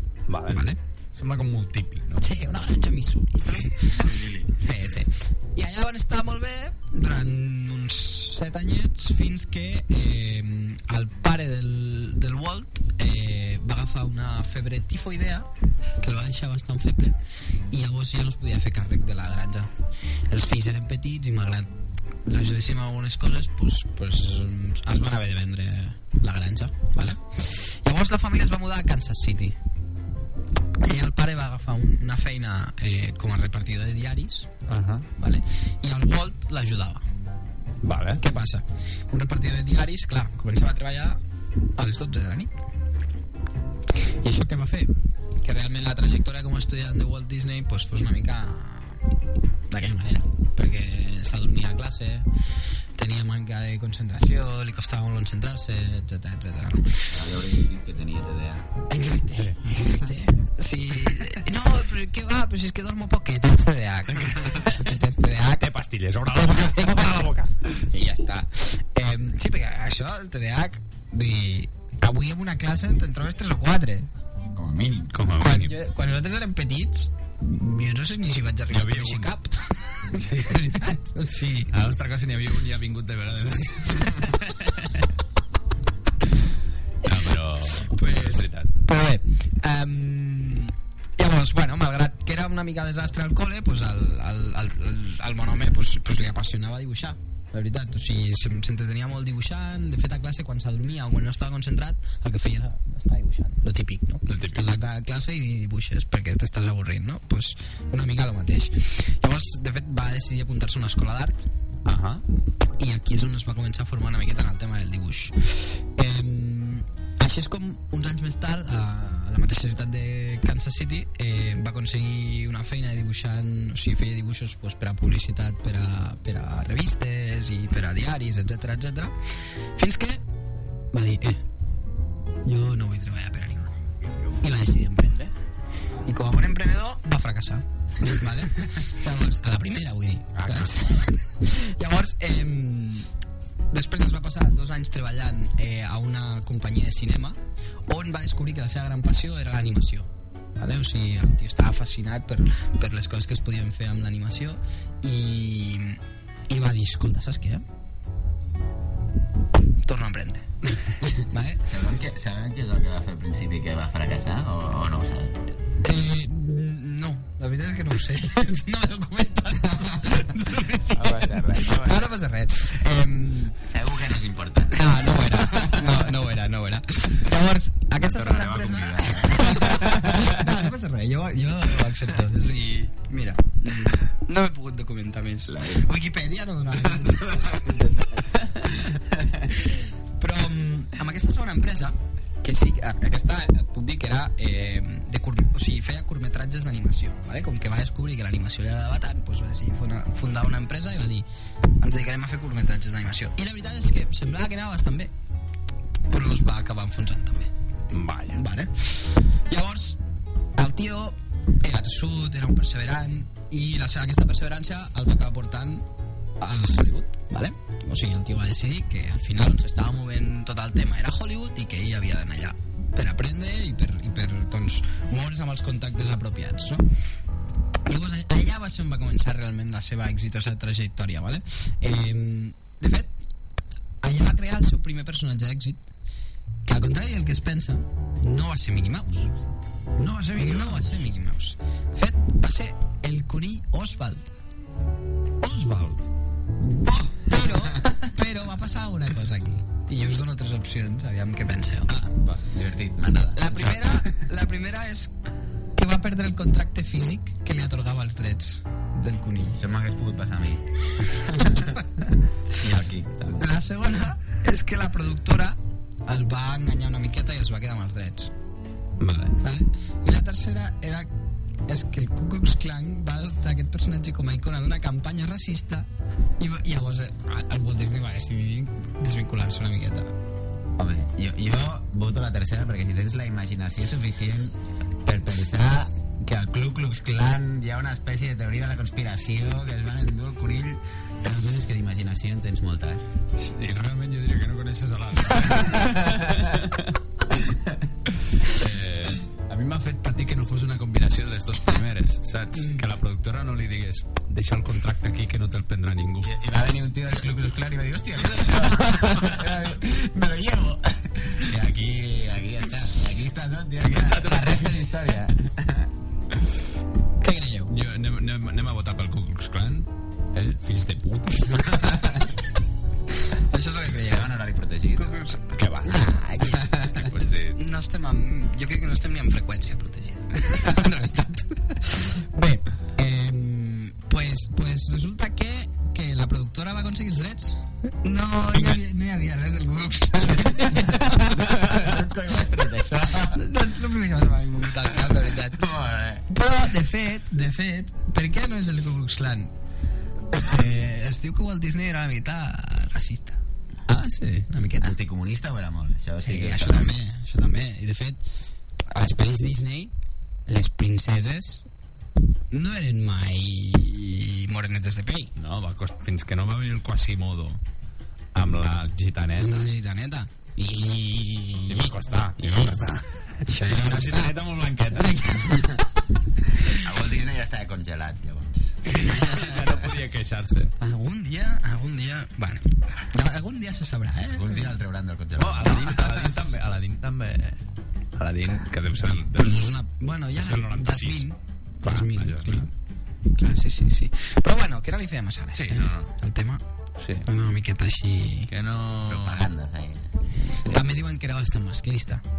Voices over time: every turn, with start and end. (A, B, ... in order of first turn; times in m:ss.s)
0:00.3-0:02.3 A
0:00.5-0:00.8 B
0:02.2-0:04.0 B
0:03.5-0:04.7 C
0:04.6-0:15.5 B
0:16.0-0:17.2 B
0:17.7-0:19.7 B
0:20.3-0:21.7 B
0:22.2-0:29.6 B
0:30.8-0:34.5 B
0:34.7-0:35.1 A
0:35.2-0:37.0 B
0:37.8-0:38.2 A
0:38.2-0:41.2 B
0:41.8-0:42.5 B
0:44.0-0:49.0 B
0:49.7-0:52.3 B
0:53.0-0:57.2 B
0:57.1-0:58.7 C
0:58.9-1:05.7 B
0:59.3-0:59.8 A
1:04.2-1:04.9 A
1:05.6-1:07.8 A
1:06.3-1:14.1 B
1:14.5-1:15.2 C
1:15.1-1:15.7 A
1:15.4-1:21.7 B
1:18.7-1:19.3 A
1:20.1-1:20.9 A
1:21.7-1:25.1 A
1:27.0-1:28.7 A
1:27.9-1:51.4 B
1:44.3-1:44.7 A
1:51.8-1:52.2 A
1:52.8-2:09.2 B
2:09.8-2:10.2 B
2:10.9-2:11.4 B
2:12.4-2:13.8 B
2:14.4-2:15.3 B
2:16.1-2:23.1 B
2:20.4-2:20.8 A
2:23.7-2:30.1 B
2:30.6-2:37.6 B
2:39.8-2:41.6 B
2:41.6-2:45.5 C
2:45.8-2:53.6 B
2:50.9-2:52.1 C
2:53.6-2:55.9 C
2:54.7-3:08.2 B
2:58.0-2:59.9 C
3:05.5-3:05.9 C
3:07.0-3:09.5 C
3:09.5-3:21.3 B
3:21.8-3:25.1 B
3:26.1-3:27.5 B
3:27.9-3:28.4 A
3:28.3-3:30.0 B
3:30.6-3:35.9 B
3:36.4-3:46.8 B
3:47.9-3:53.1 B
3:54.0-3:55.8 B
3:56.7-3:59.3 B
4:00.0-4:01.0 A
4:00.3-4:04.4 B
4:05.4-4:06.1 A
4:06.6-4:07.9 C
4:07.1-4:12.0 B
4:11.9-4:12.4 A
4:12.4-4:13.8 C
4:13.3-4:15.1 B
4:15.8-4:19.6 B
4:19.6-4:20.6 C
4:21.3-4:21.8 B
4:21.3-4:21.8 C
4:22.5-4:23.5 C
4:23.4-4:28.3 B
4:29.0-4:29.4 A
4:29.4-4:31.1 B
4:31.7-4:40.1 B
4:40.8-4:53.0 C
4:53.4-4:57.0 A
4:58.1-5:06.3 A
5:06.2-5:15.9 C
5:08.2-5:09.6 A
5:13.9-5:15.1 A
5:17.2-5:17.7 B
5:17.7-5:22.2 A
5:23.3-5:24.3 B
5:24.0-5:25.2 C
5:25.0-5:27.0 B
5:25.5-5:26.2 A
5:26.8-5:27.6 A
5:27.6-5:41.6 B
5:40.4-5:43.4 C
5:43.1-5:45.8 B
5:45.4-5:46.3 C
5:46.3-5:49.5 B
5:50.3-5:55.0 B
5:54.2-5:54.4 A
5:54.8-5:56.9 C
5:56.2-5:58.2 B
5:58.9-5:59.9 B
6:00.5-6:01.6 B
6:02.5-6:05.3 B
6:05.4-6:07.6 A
6:08.3-6:09.6 A
6:09.4-6:12.8 B
6:11.7-6:15.6 A
6:13.5-6:14.3 B
6:14.9-6:15.8 B
6:16.7-6:19.7 C
6:18.8-6:20.7 A
6:20.8-6:24.8 B
6:24.3-6:26.3 C
6:25.4-6:27.6 A
6:28.2-6:29.7 A
6:29.4-6:32.7 B
6:30.4-6:31.2 A
6:31.8-6:32.7 A
6:33.3-6:36.6 B
6:35.5-6:36.1 A
6:37.0-6:37.3 A
6:37.2-6:38.5 B
6:38.5-6:39.5 A
6:39.1-6:40.6 C
6:40.7-6:42.2 B